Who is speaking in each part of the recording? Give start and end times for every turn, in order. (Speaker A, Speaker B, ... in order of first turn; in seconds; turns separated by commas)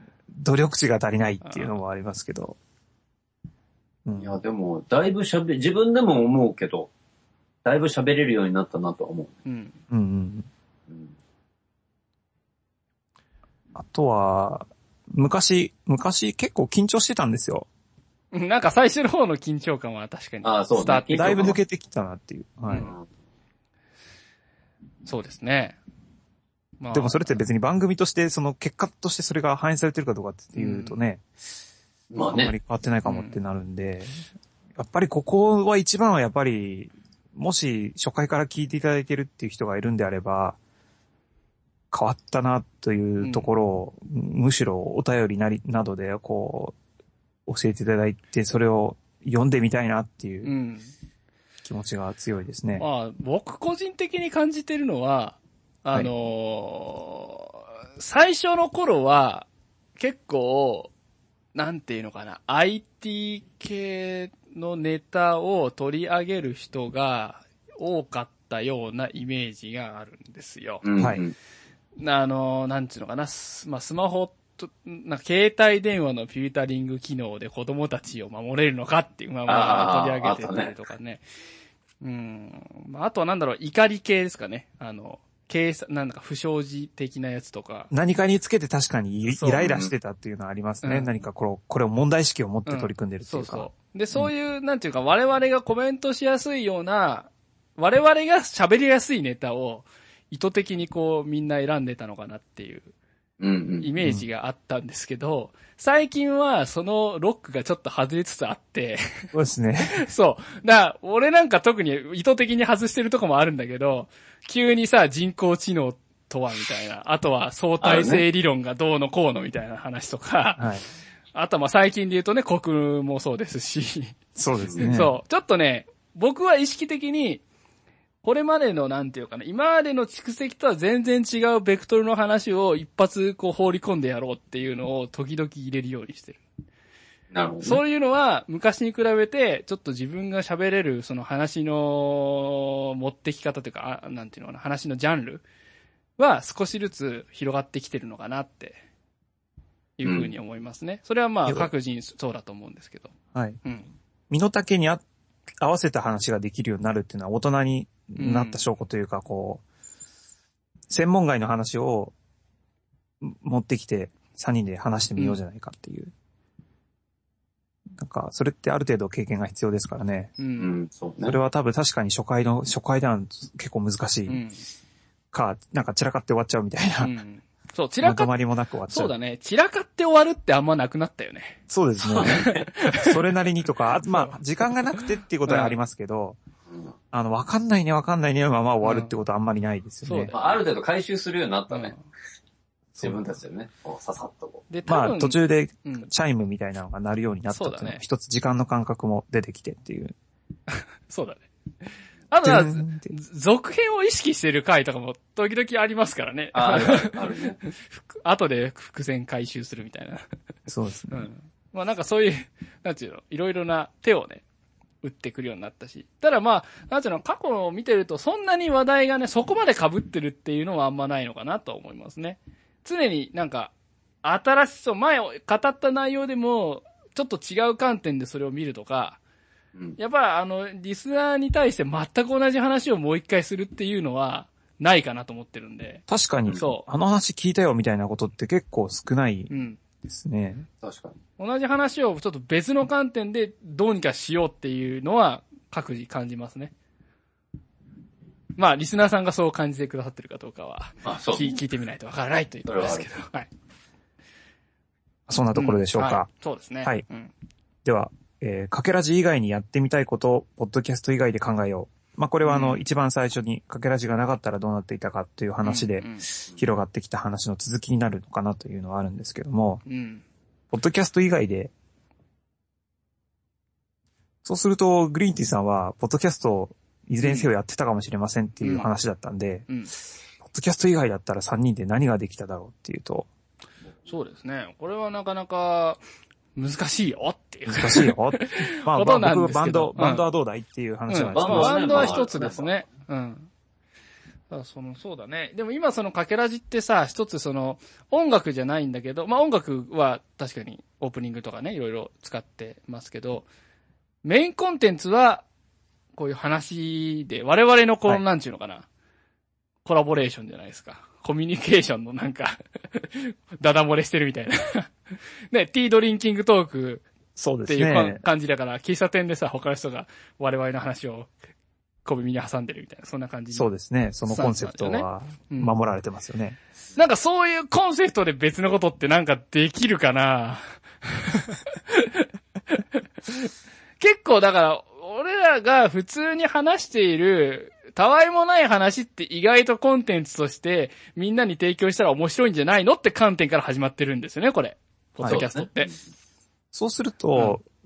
Speaker A: 0.3-2.6, Speaker B: 1.4-1.7, Speaker A: 4.1-4.4, Speaker C: 4.2-6.9, Speaker C: 7.7-9.4, Speaker B: 9.5-9.8, Speaker A: 9.9-10.5, Speaker C: 10.9-11.2, Speaker A: 13.8-17.7, Speaker B: 18.3-21.6, Speaker C: 20.4-21.6, Speaker A: 21.1-22.9, Speaker C: 22.8-23.1, Speaker B: 25.1-25.8, Speaker B: 26.8-27.4, Speaker A: 26.9-31.2, Speaker B: 30.6-31.0, Speaker C: 32.1-32.5, Speaker A: 32.3-34.2, Speaker B: 33.0-33.4, Speaker A: 34.8-40.6, Speaker A: 41.9-46.8, Speaker B: 43.2-43.5, Speaker A: 47.5-50.5, Speaker B: 50.5-50.9, Speaker A: 51.6-52.9, Speaker B: 52.8-60.9, Speaker B: 61.5-70.8, Speaker C: 70.8-71.3, Speaker B: 72.0-81.2, Speaker C: 79.5-80.7, Speaker B: 82.0-87.9, Speaker A: 87.9-94.3, Speaker B: 89.3-89.7, Speaker C: 89.6-89.9, Speaker B: 90.8-91.1, Speaker B: 92.7-102.9, Speaker C: 103.4-103.9, Speaker B: 103.8-109.3, Speaker A: 104.0-104.3, Speaker A: 109.3-110.0, Speaker B: 109.9-120.7, Speaker C: 117.8-118.2, Speaker A: 120.6-120.8, Speaker B: 121.3-124.2, Speaker A: 124.4-125.2, Speaker B: 124.8-127.4, Speaker B: 128.2-136.4, Speaker C: 137.3-137.8, Speaker B: 137.6-145.4, Speaker B: 146.2-148.8, Speaker B: 150.0-153.1, Speaker C: 150.1-150.3, Speaker A: 153.3-153.6, Speaker B: 153.6-153.9, Speaker A: 154.3-155.0, Speaker A: 155.6-159.6, Speaker B: 158.2-158.6, Speaker A: 160.9-162.1, Speaker A: 163.2-166.1, Speaker A: 168.0-170.3, Speaker B: 170.4-170.7, Speaker C: 170.6-171.4, Speaker A: 171.2-174.4, Speaker B: 174.3-174.6, Speaker A: 175.3-177.2, Speaker B: 177.0-178.3, Speaker A: 178.0-179.1, Speaker B: 178.9-181.6, Speaker A: 181.7-186.4, Speaker C: 182.1-182.7, Speaker B: 182.2-183.2, Speaker B: 184.0-184.3, Speaker B: 184.9-185.8, Speaker C: 186.7-186.9, Speaker A: 187.1-190.3, Speaker B: 188.8-189.1, Speaker B: 190.0-190.6, Speaker C: 190.3-192.0, Speaker B: 191.7-192.0, Speaker A: 192.9-193.2, Speaker C: 193.0-194.7, Speaker B: 194.7-196.1, Speaker A: 194.9-200.2, Speaker B: 197.5-198.0, Speaker B: 200.7-201.5, Speaker B: 202.3-210.2, Speaker A: 202.4-203.1, Speaker C: 206.5-207.6, Speaker A: 210.7-211.2, Speaker B: 211.1-214.4, Speaker B: 215.0-223.7, Speaker B: 224.2-229.2, Speaker B: 230.0-236.0, Speaker A: 236.1-239.5, Speaker B: 236.6-236.8, Speaker B: 239.5-239.8, Speaker A: 240.0-240.7, Speaker C: 240.8-241.2, Speaker B: 241.4-246.7, Speaker B: 248.6-253.5, Speaker C: 251.0-251.6, Speaker C: 252.7-253.1, Speaker A: 255.3-256.3, Speaker B: 255.6-257.3, Speaker A: 257.9-269.8, Speaker B: 262.4-262.8, Speaker B: 265.6-266.3, Speaker B: 269.9-270.2, Speaker A: 270.7-271.7, Speaker A: 274.4-279.7, Speaker B: 277.2-277.5, Speaker B: 278.6-278.9, Speaker B: 279.7-279.9, Speaker A: 280.4-283.3, Speaker B: 284.1-286.0, Speaker B: 286.6-290.2, Speaker A: 287.7-292.2, Speaker B: 291.1-293.5, Speaker C: 291.3-292.8, Speaker B: 294.5-303.5, Speaker B: 304.2-305.4, Speaker B: 306.2-308.9, Speaker B: 309.9-314.9, Speaker B: 315.5-317.1, Speaker A: 317.4-318.2, Speaker B: 317.7-321.3, Speaker B: 322.1-323.7, Speaker A: 323.5-326.6, Speaker B: 324.3-325.8, Speaker B: 327.0-345.9, Speaker C: 345.3-346.0, Speaker A: 346.7-347.7